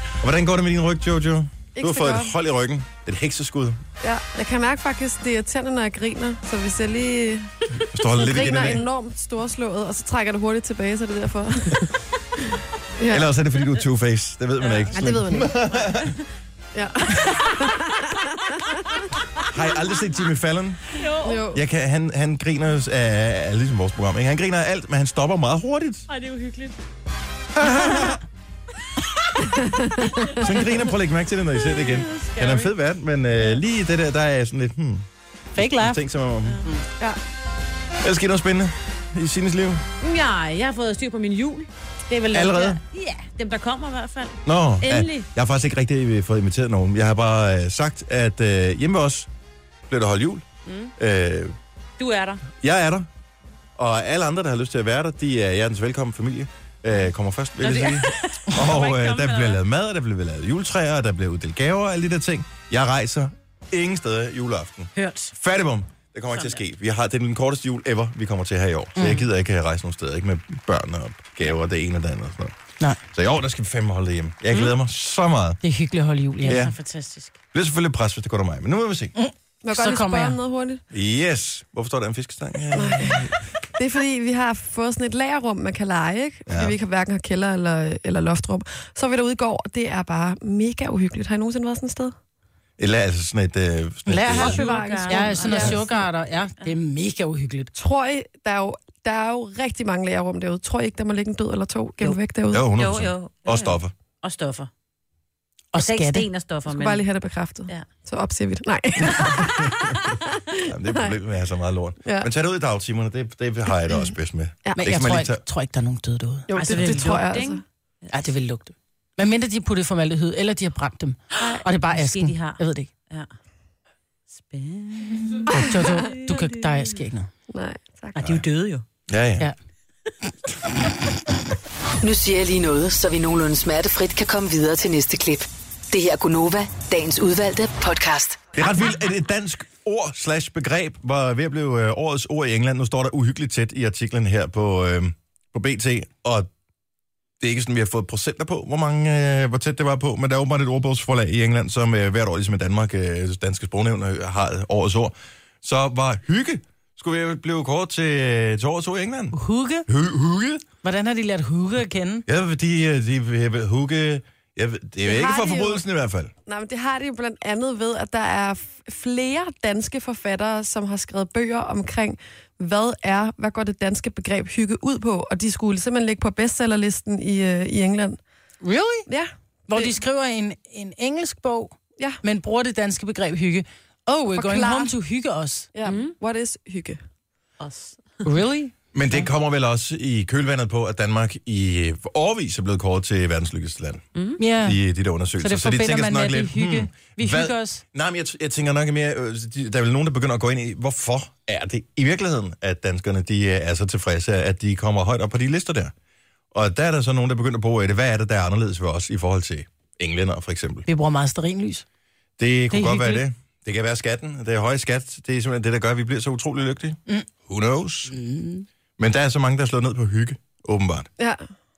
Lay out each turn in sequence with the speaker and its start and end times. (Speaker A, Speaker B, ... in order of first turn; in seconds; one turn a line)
Speaker A: 0.2-3.8
Speaker B: 1.8-2.3
Speaker B: 4.0-11.9
Speaker A: 7.8-8.8
Speaker B: 13.0-13.3
Speaker A: 13.1-16.2
Speaker C: 14.6-14.9
Speaker B: 14.9-15.8
Speaker B: 16.7-18.7
Speaker A: 19.5-21.0
Speaker C: 20.9-21.5
Speaker B: 21.2-21.6
Speaker A: 21.5-26.1
Speaker C: 26.1-26.8
Speaker A: 27.5-28.2
Speaker B: 29.6-30.1
Speaker A: 30.3-36.7
Speaker C: 31.6-32.7
Speaker D: 35.6-36.0
Speaker C: 36.5-36.8
Speaker A: 38.0-39.8
Speaker C: 40.0-45.3
Speaker A: 42.3-42.8
Speaker A: 44.5-49.3
Speaker A: 49.9-50.5
Speaker C: 50.7-50.9
Speaker A: 51.0-51.6
Speaker C: 52.0-52.4
Speaker A: 52.6-53.1
Speaker A: 53.8-72.5
Speaker C: 57.6-59.6
Speaker C: 65.0-65.3
Speaker C: 66.3-66.6
Speaker D: 69.0-69.3
Speaker A: 73.1-75.6
Speaker D: 75.6-76.7
Speaker C: 76.4-77.3
Speaker A: 76.5-76.8
Speaker A: 77.5-79.1
Speaker D: 79.2-80.4
Speaker B: 79.6-80.8
Speaker A: 80.9-83.4
Speaker B: 82.7-92.2
Speaker A: 86.5-86.8
Speaker A: 92.8-94.6
Speaker D: 94.1-97.7
Speaker C: 94.3-96.0
Speaker B: 94.4-95.9
Speaker B: 97.8-102.7
Speaker A: 102.5-103.9
Speaker C: 102.8-104.7
Speaker D: 105.7-106.2
Speaker C: 105.8-107.0
Speaker B: 106.7-111.1
Speaker A: 109.1-110.0
Speaker A: 110.6-115.4
Speaker D: 114.8-117.0
Speaker B: 116.5-117.6
Speaker C: 116.5-118.1
Speaker D: 118.1-122.9
Speaker C: 121.3-123.3
Speaker C: 124.3-127.0
Speaker D: 125.5-127.3
Speaker B: 125.5-125.9
Speaker B: 127.5-128.4
Speaker C: 128.2-128.8
Speaker A: 128.2-128.4
Speaker A: 129.1-129.5
Speaker E: 132.0-138.5
Speaker A: 138.5-146.5
Speaker A: 147.4-160.6
Speaker D: 159.3-159.9
Speaker D: 160.8-162.2
Speaker A: 162.3-166.3
Speaker B: 165.0-165.8
Speaker B: 166.5-178.2
Speaker D: 178.6-179.1
Speaker B: 179.1-179.9
Speaker D: 179.7-185.7
Speaker B: 184.3-184.9
Speaker B: 185.8-187.0
Speaker C: 185.8-186.2
Speaker C: 187.6-188.2
Speaker D: 188.2-188.7
Speaker A: 188.9-194.1
Speaker C: 194.2-194.4
Speaker D: 194.4-194.8
Speaker A: 194.6-205.9
Speaker D: 195.4-197.8
Speaker A: 206.5-210.9
Speaker D: 210.9-211.8
Speaker A: 212.4-218.2
Speaker D: 212.7-213.2
Speaker D: 218.1-218.7
Speaker A: 219.0-221.1